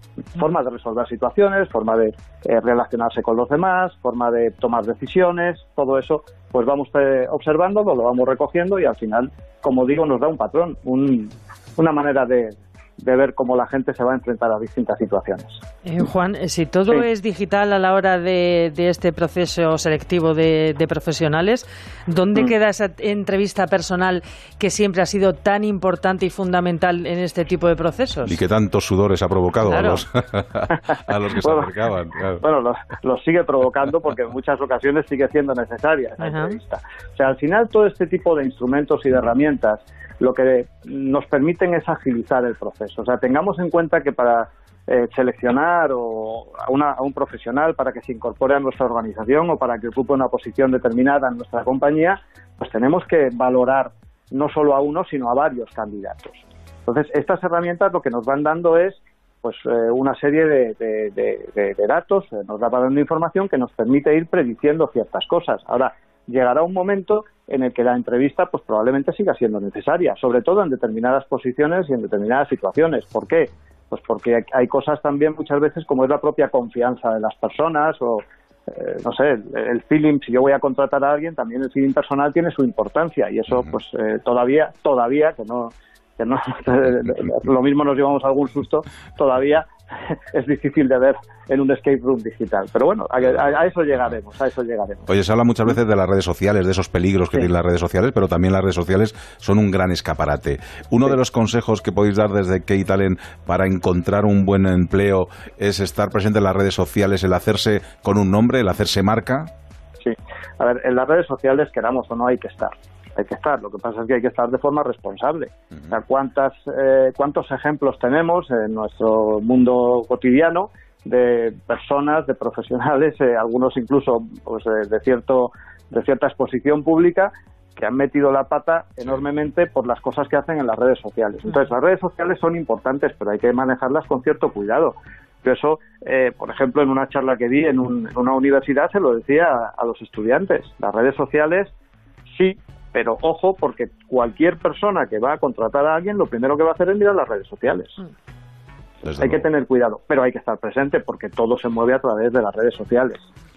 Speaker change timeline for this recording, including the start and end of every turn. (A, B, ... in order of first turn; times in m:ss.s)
0:00.3-0:15.6 A
0:15.8-0:28.4 B
0:28.2-0:32.4 C
0:29.6-0:30.0 B
0:31.4-0:31.7 A
0:32.4-1:29.6 A
0:36.2-0:36.6 B
1:30.3-1:35.1 A
1:33.4-1:34.0 C
1:35.1-1:49.5 C
1:50.0-2:21.7 A
2:22.3-2:28.0 A
2:29.0-2:29.4 C
2:29.2-2:33.3 A